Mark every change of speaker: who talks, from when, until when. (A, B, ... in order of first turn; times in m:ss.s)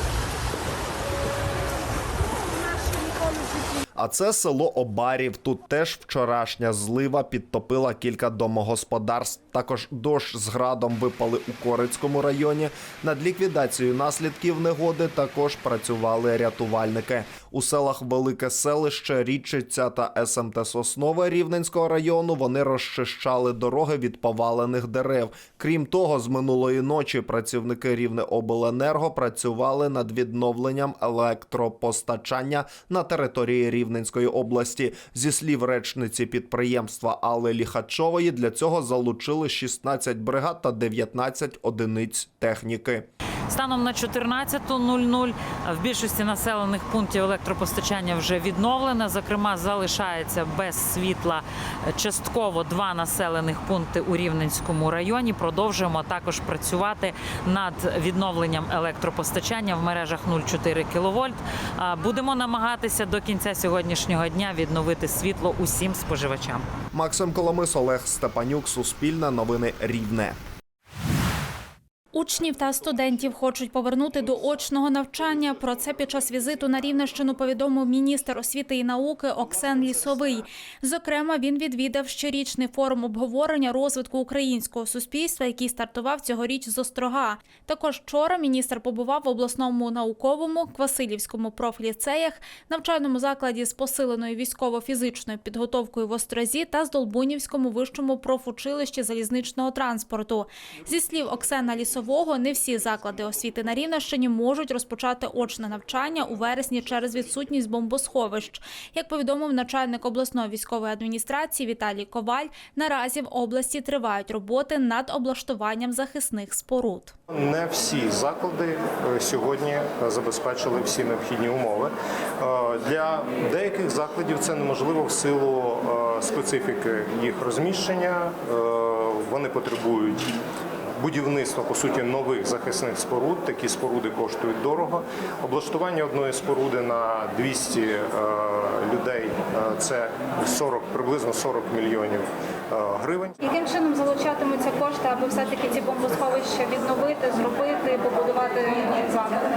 0:04.0-0:43.1 A
0:43.5-1:06.7 B
1:06.9-1:10.4 A
1:12.1-1:57.1 C
1:57.3-2:10.2 D
2:11.0-2:23.4 D
2:23.8-2:25.7 C